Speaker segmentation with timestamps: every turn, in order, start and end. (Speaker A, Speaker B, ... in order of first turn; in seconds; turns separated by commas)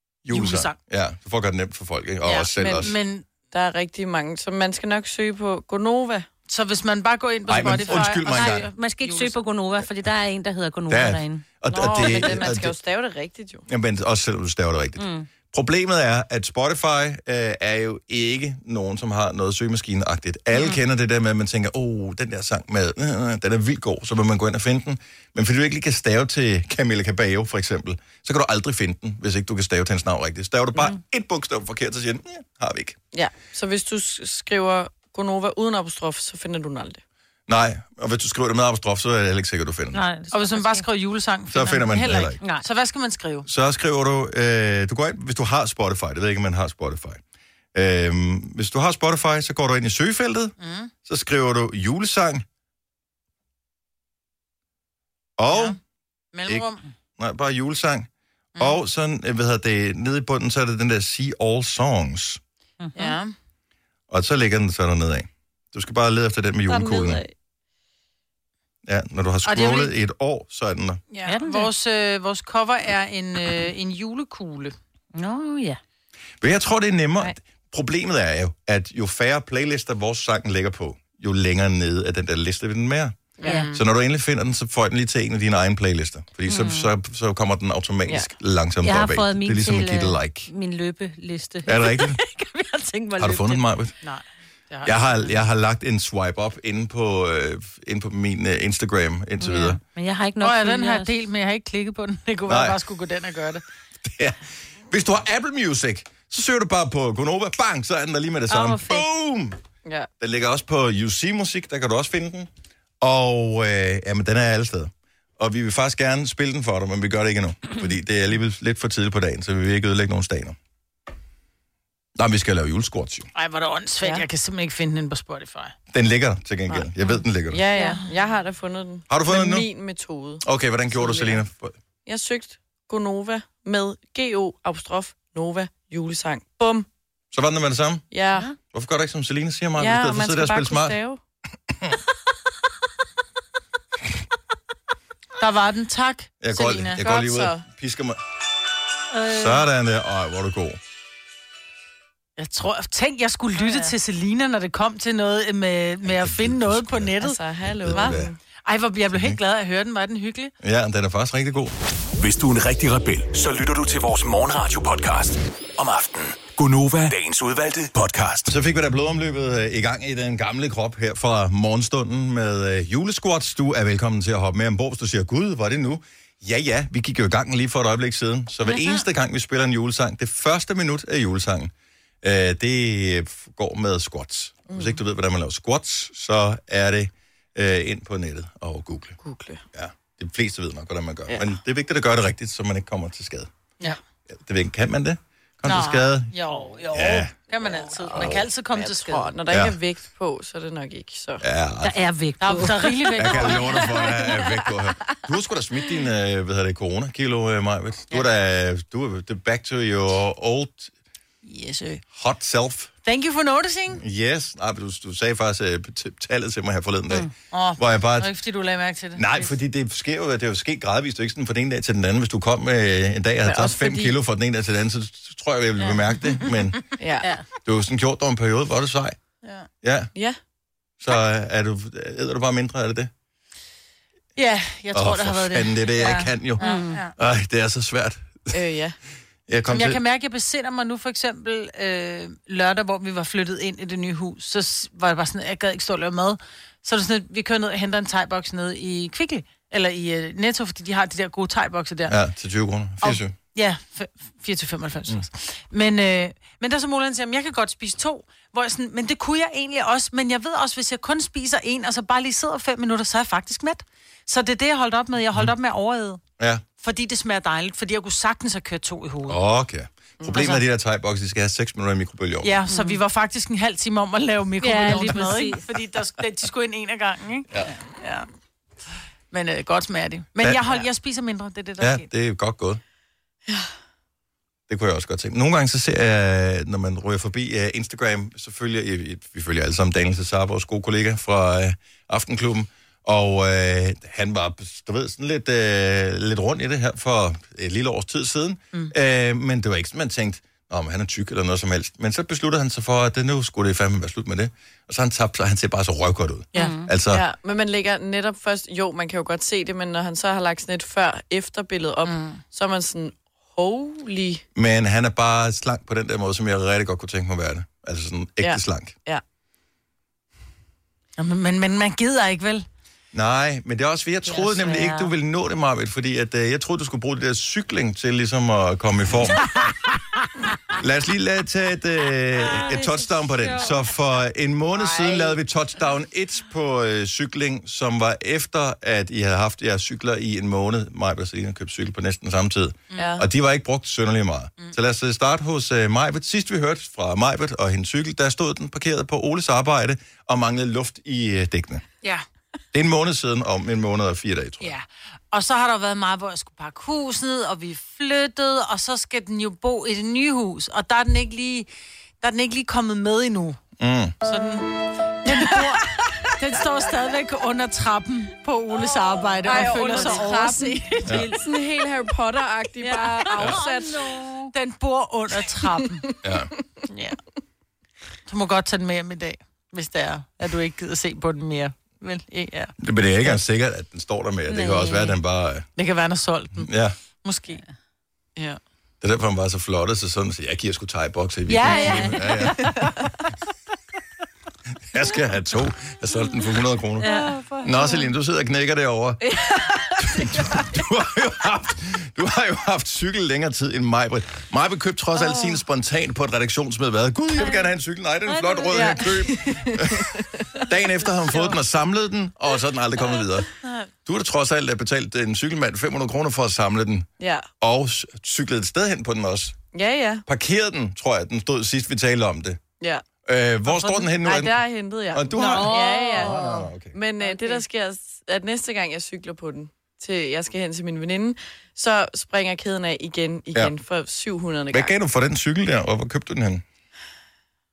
Speaker A: 0.2-3.0, Speaker B: 0.3-0.8, Speaker B: 2.2-3.2, Speaker C: 3.5-6.3, Speaker B: 6.5-9.4, Speaker A: 7.5-8.7, Speaker D: 7.6-12.3, Speaker A: 10.9-12.8, Speaker C: 11.7-13.7, Speaker A: 13.7-33.0, Speaker D: 15.0-15.3, Speaker D: 20.5-20.8, Speaker C: 33.1-37.0, Speaker A: 37.5-40.0, Speaker D: 39.9-40.9, Speaker B: 40.3-43.5, Speaker A: 41.5-42.4, Speaker A: 43.5-47.2, Speaker A: 47.7-50.5, Speaker B: 50.6-50.9, Speaker A: 51.0-52.5, Speaker A: 55.4-55.8, Speaker B: 55.5-55.8, Speaker B: 56.3-56.9, Speaker A: 57.2-62.4, Speaker D: 62.8-63.2, Speaker B: 63.0-63.3, Speaker A: 64.1-67.2, Speaker C: 66.7-67.3, Speaker A: 68.8-71.0, Speaker B: 69.5-69.9, Speaker B: 71.1-74.8, Speaker D: 71.3-71.7, Speaker D: 75.1-75.8, Speaker A: 76.4-90.5, Speaker C: 83.4-83.8, Speaker D: 83.4-83.7, Speaker D: 86.5-86.9, Speaker D: 88.8-93.6, Speaker A: 91.7-92.2, Speaker A: 93.2-93.9, Speaker B: 94.0-95.3, Speaker A: 94.8-99.8, Speaker D: 99.4-101.1, Speaker B: 100.4-103.7, Speaker A: 102.5-102.8, Speaker A: 104.0-104.4, Speaker A: 104.9-109.6, Speaker D: 108.5-109.1, Speaker A: 110.2-112.5, Speaker A: 113.0-120.6, Speaker A: 122.2-123.3, Speaker B: 123.3-125.7, Speaker A: 125.9-127.6, Speaker C: 127.5-131.4, Speaker D: 127.8-128.1, Speaker A: 129.1-129.7, Speaker A: 130.4-131.7, Speaker C: 132.1-136.9, Speaker A: 137.3-138.1, Speaker C: 138.1-138.5, Speaker A: 138.7-141.0, Speaker C: 139.8-141.2, Speaker B: 145.4-147.0, Speaker A: 146.4-148.2, Speaker C: 147.0-147.6, Speaker D: 149.1-149.6, Speaker A: 149.3-150.8, Speaker B: 152.4-157.4, Speaker D: 153.6-153.9, Speaker A: 156.1-157.1, Speaker C: 157.2-158.4, Speaker A: 157.8-158.3, Speaker B: 158.6-160.5, Speaker A: 159.1-159.4, Speaker A: 160.6-161.7, Speaker E: 162.2-168.6, Speaker A: 168.5-189.2, Speaker D: 178.7-179.0, Speaker C: 184.7-185.0, Speaker C: 189.2-189.6, Speaker A: 189.7-193.5, Speaker A: 194.3-196.3, Speaker B: 195.7-199.3, Speaker A: 196.9-197.3, Speaker C: 197.8-201.4, Speaker A: 198.1-198.5, Speaker A: 199.5-199.8, Speaker A: 201.4-202.0, Speaker D: 201.8-203.8, Speaker B: 202.4-203.9, Speaker A: 203.2-210.9, Speaker C: 204.0-204.5, Speaker B: 211.4-212.0, Speaker A: 212.1-212.9, Speaker B: 213.1-214.0, Speaker A: 213.9-218.3, Speaker B: 217.5-219.6, Speaker A: 219.2-226.8, Speaker C: 223.4-224.2, Speaker B: 225.8-226.5, Speaker C: 227.0-227.3, Speaker A: 227.6-229.2, Speaker B: 229.4-229.7, Speaker A: 229.8-230.1, Speaker A: 231.0-233.1, Speaker B: 234.4-237.2, Speaker A: 234.9-238.5, Speaker D: 236.6-237.0, Speaker C: 238.5-239.0, Speaker A: 239.5-240.0, Speaker B: 239.7-252.2, Speaker A: 252.1-253.3, Speaker B: 253.0-266.2, Speaker A: 266.4-266.6, Speaker B: 266.8-269.4, Speaker A: 269.3-272.6, Speaker C: 270.2-270.5, Speaker B: 270.3-270.6, Speaker B: 272.4-278.3, Speaker D: 272.7-273.0, Speaker D: 274.6-275.6, Speaker B: 279.3-282.1, Speaker A: 281.8-282.8, Speaker C: 283.5-283.7, Speaker A: 284.7-307.2, Speaker D: 306.6-306.9, Speaker C: 307.1-314.4, Speaker B: 312.1-312.4, Speaker A: 314.6-319.0, Speaker C: 318.4-319.2, Speaker B: 321.2-322.7, Speaker A: 323.1-329.5, Speaker D: 324.3-325.1, Speaker A: 330.8-351.8, Speaker D: 332.4-333.8, Speaker C: 334.8-335.4, Speaker C: 343.0-343.2, Speaker A: 352.7-354.7, Speaker B: 354.6-361.7, Speaker B: 362.2-363.6, Speaker A: 363.8-364.2, Speaker B: 364.2-364.7, Speaker B: 365.2-371.2, Speaker C: 365.3-365.7, Speaker C: 369.4-374.1, Speaker D: 369.5-370.4, Speaker A: 371.1-371.3, Speaker D: 372.8-374.5, Speaker B: 374.5-376.1, Speaker A: 376.2-376.5, Speaker B: 376.9-377.2, Speaker B: 378.3-382.8, Speaker A: 382.8-385.7, Speaker D: 384.5-385.2, Speaker B: 385.8-386.7, Speaker A: 386.6-386.9, Speaker B: 387.2-387.6, Speaker A: 389.0-392.9, Speaker B: 391.5-392.0, Speaker C: 391.6-393.0, Speaker D: 391.6-392.5, Speaker A: 394.9-399.3, Speaker D: 397.0-398.1, Speaker B: 397.1-397.6, Speaker C: 399.2-400.7, Speaker A: 400.0-410.1, Speaker D: 407.4-407.7, Speaker D: 408.3-409.1, Speaker C: 408.7-410.6, Speaker A: 410.7-413.5, Speaker B: 413.6-413.9, Speaker A: 414.1-417.1, Speaker C: 417.2-417.5, Speaker A: 417.6-419.6, Speaker C: 419.7-420.2, Speaker A: 420.3-422.6, Speaker C: 422.8-423.1, Speaker A: 423.2-426.9, Speaker B: 423.7-424.0, Speaker C: 424.2-434.9, Speaker D: 425.4-426.5, Speaker B: 427.3-427.5, Speaker A: 434.7-436.6